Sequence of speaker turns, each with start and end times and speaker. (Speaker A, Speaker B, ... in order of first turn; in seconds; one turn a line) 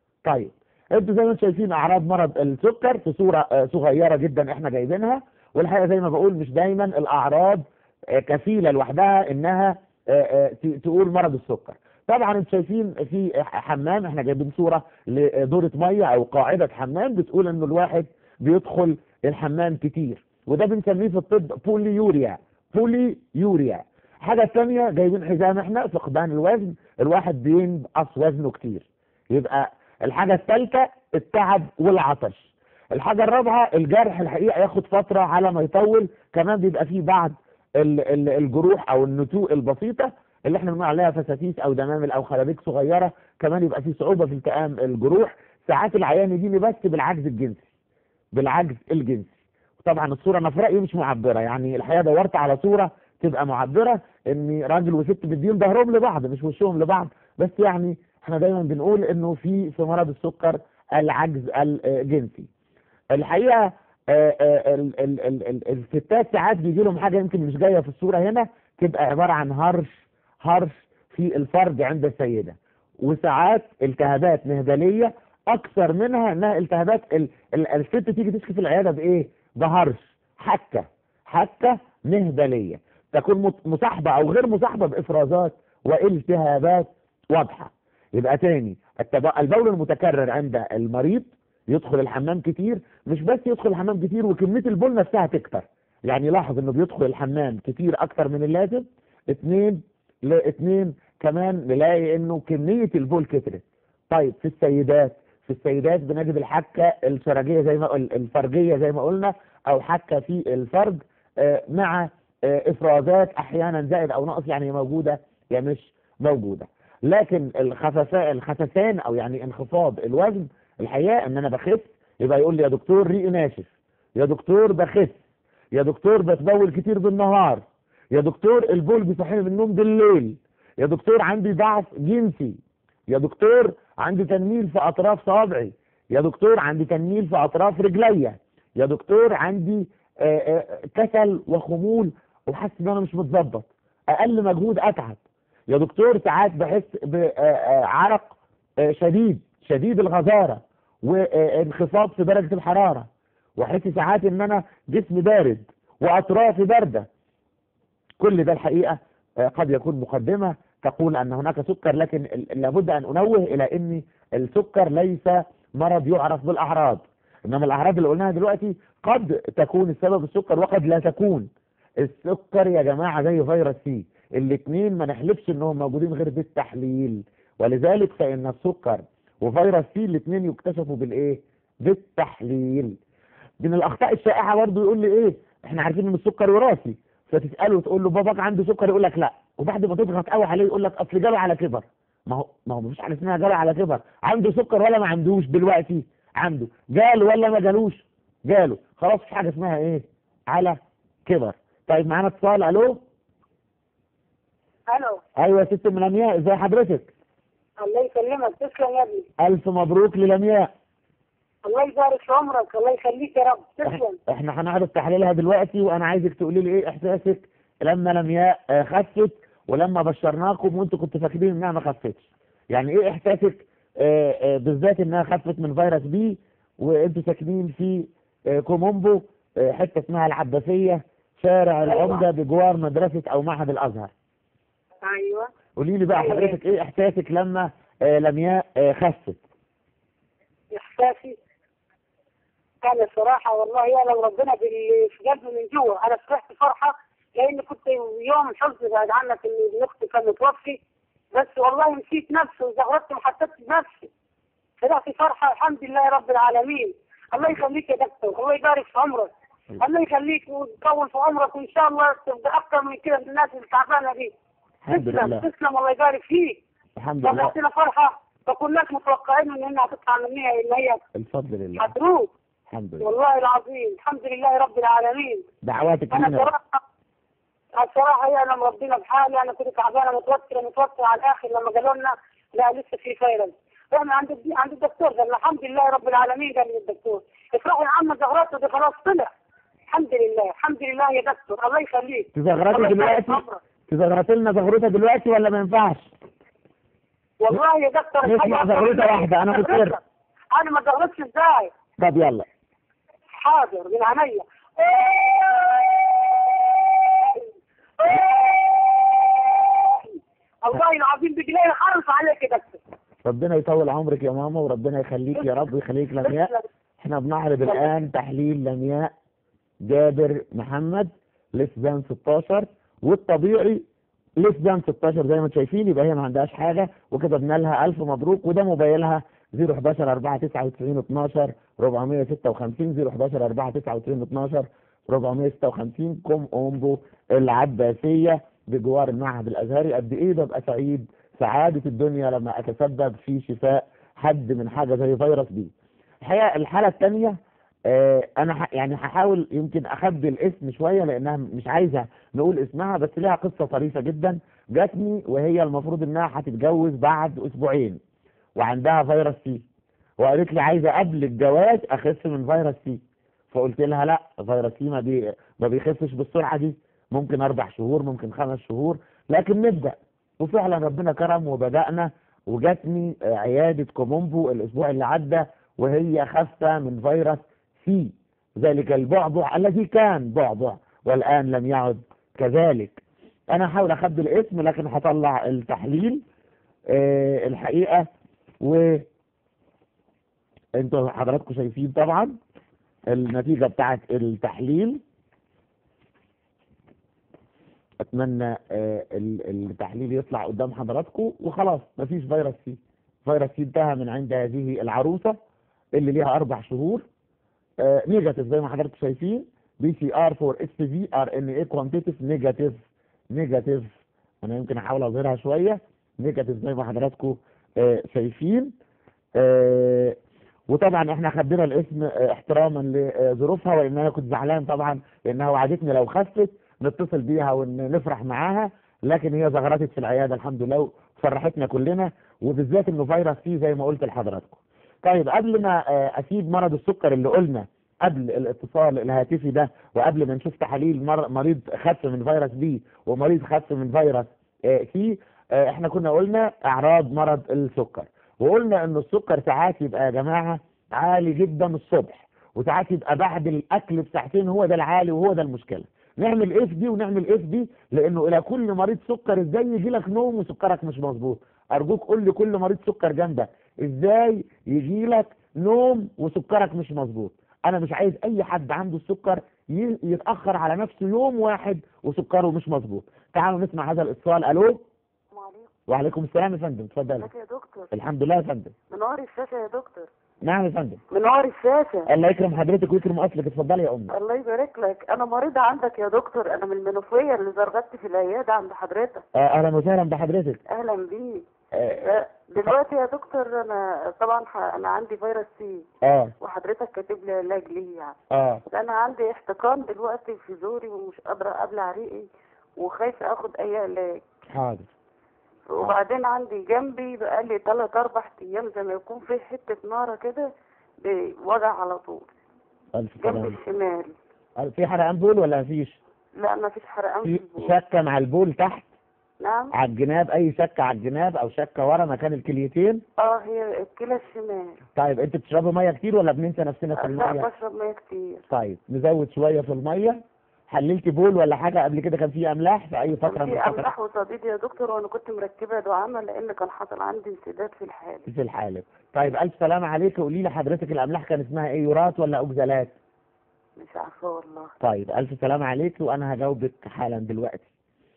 Speaker A: 0.2-47.6
Speaker A: 48.3-49.3
Speaker A: 49.8-62.5
Speaker A: 63.1-125.2
Speaker A: 125.7-132.6
Speaker A: 133.1-145.2
Speaker A: 145.7-157.1
Speaker A: 158.2-171.5
Speaker A: 172.0-182.9
Speaker A: 183.6-203.0
Speaker B: 204.9-205.2
Speaker A: 205.4-207.1
Speaker B: 207.8-209.3
Speaker A: 209.4-210.7
Speaker B: 211.6-214.2
Speaker A: 213.8-234.1
Speaker B: 231.9-232.2
Speaker B: 235.0-235.5
Speaker A: 235.8-239.4
Speaker B: 236.2-236.5
Speaker B: 240.7-241.3
Speaker B: 242.8-250.8
Speaker B: 251.3-254.1
Speaker B: 254.8-264.3
Speaker A: 264.8-265.5
Speaker B: 264.9-266.6
Speaker A: 267.0-267.6
Speaker B: 267.2-271.0
Speaker A: 271.1-271.9
Speaker B: 271.8-272.3
Speaker A: 272.7-273.1
Speaker B: 273.0-275.4
Speaker A: 275.6-276.5
Speaker B: 276.1-276.8
Speaker B: 277.7-289.3
Speaker B: 289.9-293.6
Speaker A: 292.3-296.1
Speaker B: 297.4-300.0
Speaker A: 298.2-300.0
Speaker B: 300.5-301.7
Speaker A: 302.0-302.4
Speaker B: 303.3-307.4
Speaker B: 308.0-312.8
Speaker A: 313.2-319.1
Speaker B: 316.2-316.6
Speaker A: 319.8-323.8
Speaker A: 324.4-347.4
Speaker A: 347.9-358.0
Speaker A: 358.6-359.6
Speaker A: 360.2-363.0
Speaker A: 363.5-386.2
Speaker A: 386.9-388.1
Speaker A: 388.6-389.0
Speaker A: 390.8-392.4
Speaker A: 393.1-395.0
Speaker A: 398.0-405.4
Speaker A: 405.9-407.0
Speaker A: 407.8-418.7
Speaker A: 419.4-420.1
Speaker A: 420.7-474.8
Speaker C: 475.3-475.7
Speaker A: 475.9-477.3
Speaker C: 477.2-477.9
Speaker A: 477.9-478.7
Speaker C: 478.9-480.1
Speaker A: 480.4-481.0
Speaker C: 481.1-482.1
Speaker A: 482.1-484.1
Speaker C: 484.1-489.2
Speaker A: 489.3-490.6
Speaker C: 490.6-491.4
Speaker A: 491.7-492.7
Speaker C: 492.0-495.9
Speaker A: 496.0-496.3
Speaker C: 496.4-504.3
Speaker A: 498.3-498.6
Speaker A: 504.5-504.9
Speaker C: 505.7-510.5
Speaker C: 511.0-512.3
Speaker A: 512.9-513.6
Speaker C: 513.2-514.1
Speaker A: 514.6-516.0
Speaker C: 516.3-517.7
Speaker A: 517.2-518.9
Speaker C: 519.4-519.7
Speaker A: 519.7-523.0
Speaker C: 523.2-524.8
Speaker A: 525.0-527.5
Speaker C: 527.0-528.5
Speaker A: 528.5-533.9
Speaker C: 533.2-538.3
Speaker A: 538.3-542.9
Speaker C: 543.8-544.7
Speaker A: 544.8-547.7